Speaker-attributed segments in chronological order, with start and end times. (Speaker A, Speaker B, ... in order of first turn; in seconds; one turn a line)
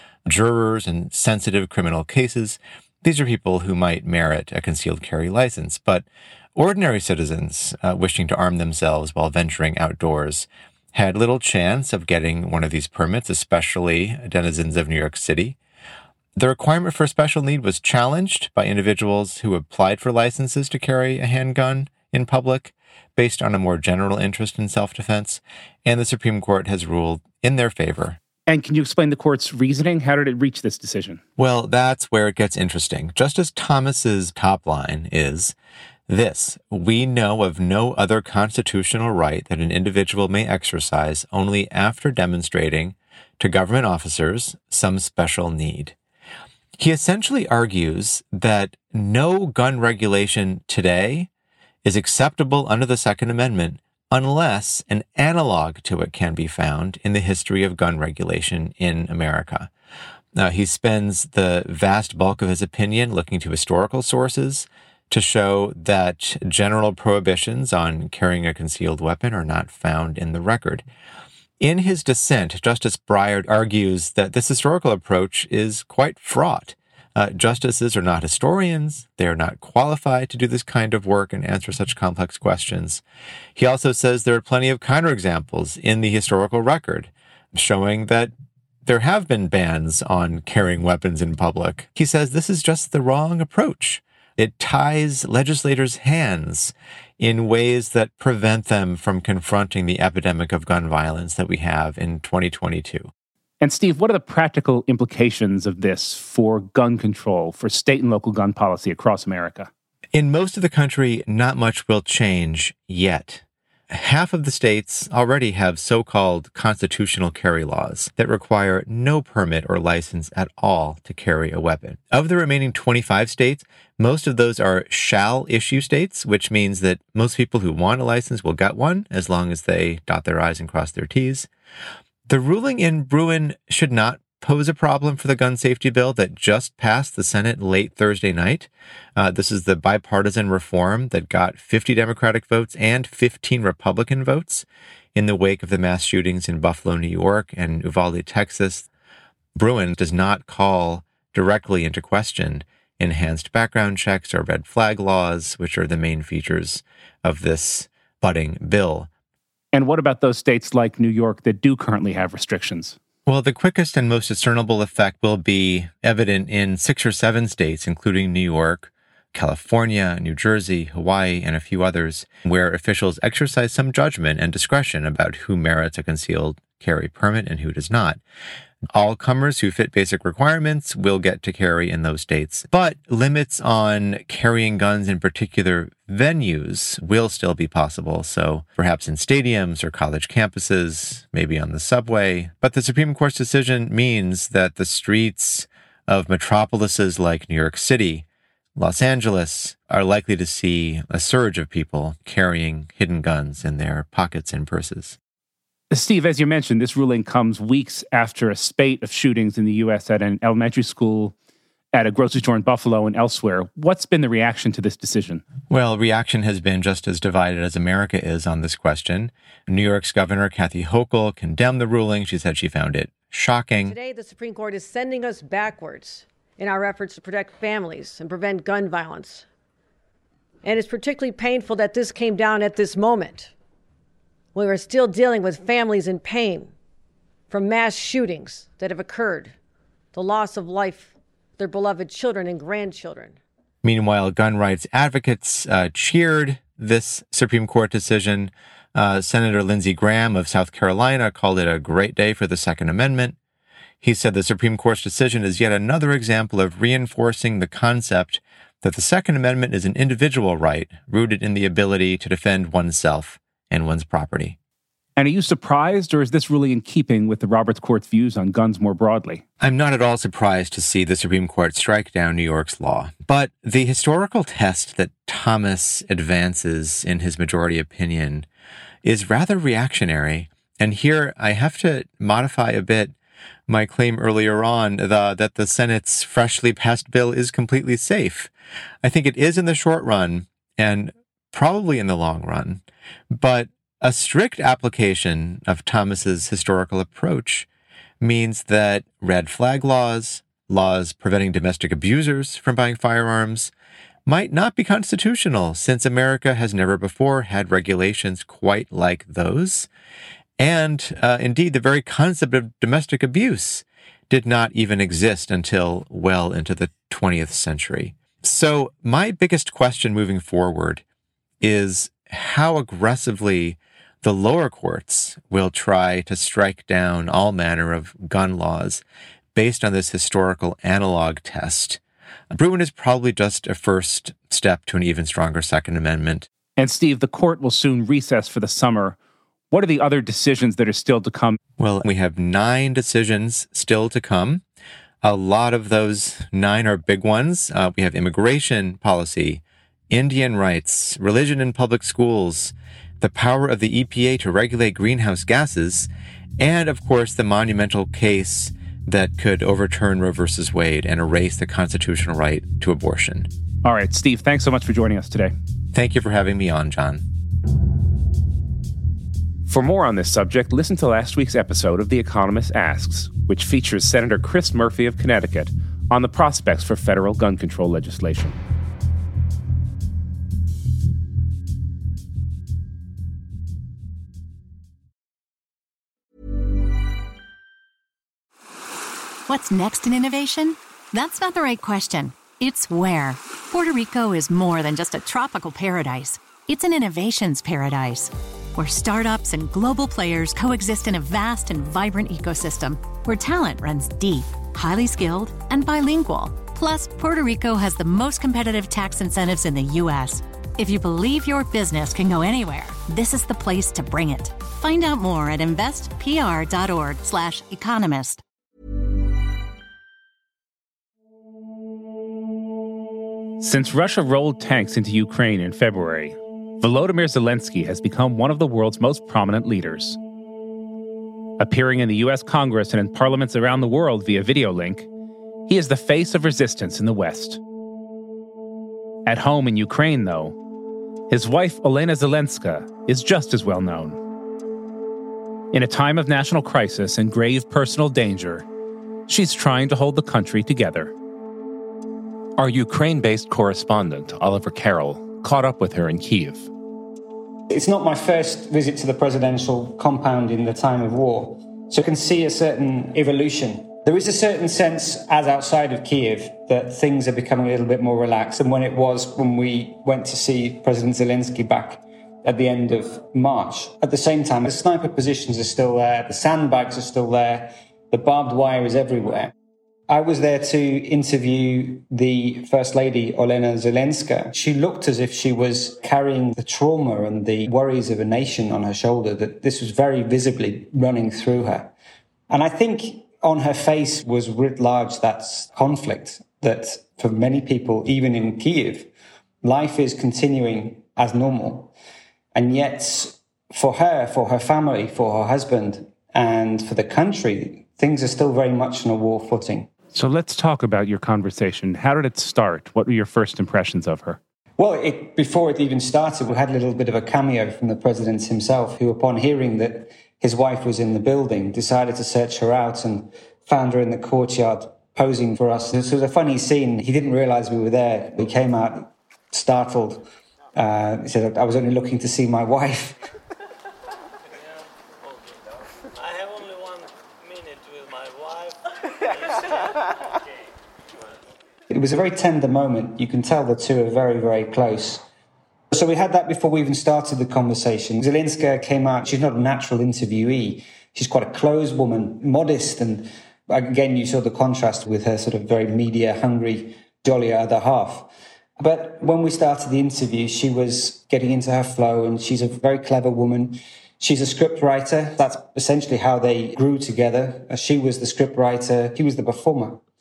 Speaker A: 0.2-15.6
Speaker A: 16.4-28.2
Speaker B: 28.5-31.2
Speaker A: 31.4-35.5
Speaker A: 36.1-45.9
Speaker A: 46.8-51.3
Speaker A: 51.8-59.7
Speaker A: 60.3-70.8
Speaker A: 71.6-83.0
Speaker A: 83.5-88.3
Speaker A: 88.8-103.1
Speaker B: 103.6-109.7
Speaker A: 110.1-131.5
Speaker A: 132.3-148.9
Speaker A: 149.6-159.1
Speaker B: 159.7-163.0
Speaker A: 163.2-178.2
Speaker A: 178.9-198.2
Speaker A: 198.8-205.2
Speaker B: 205.9-211.3
Speaker B: 211.9-215.4
Speaker A: 215.7-223.9
Speaker C: 223.8-229.4
Speaker C: 230.6-233.5
Speaker C: 234.5-236.7
Speaker C: 237.5-239.5
Speaker C: 240.1-243.4
Speaker A: 243.8-253.3
Speaker A: 254.0-264.6
Speaker B: 265.2-269.4
Speaker A: 269.6-278.5
Speaker A: 279.0-283.1
Speaker A: 283.7-288.5
Speaker A: 289.0-297.7
Speaker A: 298.2-303.7
Speaker A: 304.2-309.9
Speaker A: 310.6-321.0
Speaker A: 321.6-329.0
Speaker A: 329.5-332.0
Speaker A: 332.5-336.5
Speaker B: 336.8-339.2
Speaker B: 339.7-341.6
Speaker A: 341.8-344.6
Speaker A: 345.2-363.5
Speaker B: 363.8-365.5
Speaker A: 365.9-367.2
Speaker B: 369.7-378.6
Speaker D: 389.5-418.4
Speaker B: 423.6-430.2
Speaker B: 431.6-435.1
Speaker B: 435.7-437.6
Speaker B: 439.2-440.6
Speaker B: 441.3-444.2
Speaker B: 445.7-448.6
Speaker B: 449.3-451.1
Speaker B: 452.6-456.7
Speaker E: 457.7-479.5
Speaker E: 480.1-491.9
Speaker E: 492.5-499.1
Speaker E: 499.6-501.9
Speaker E: 502.5-509.9
Speaker B: 510.1-514.4
Speaker E: 514.8-533.2
Speaker E: 541.9-545.2
Speaker E: 545.9-570.0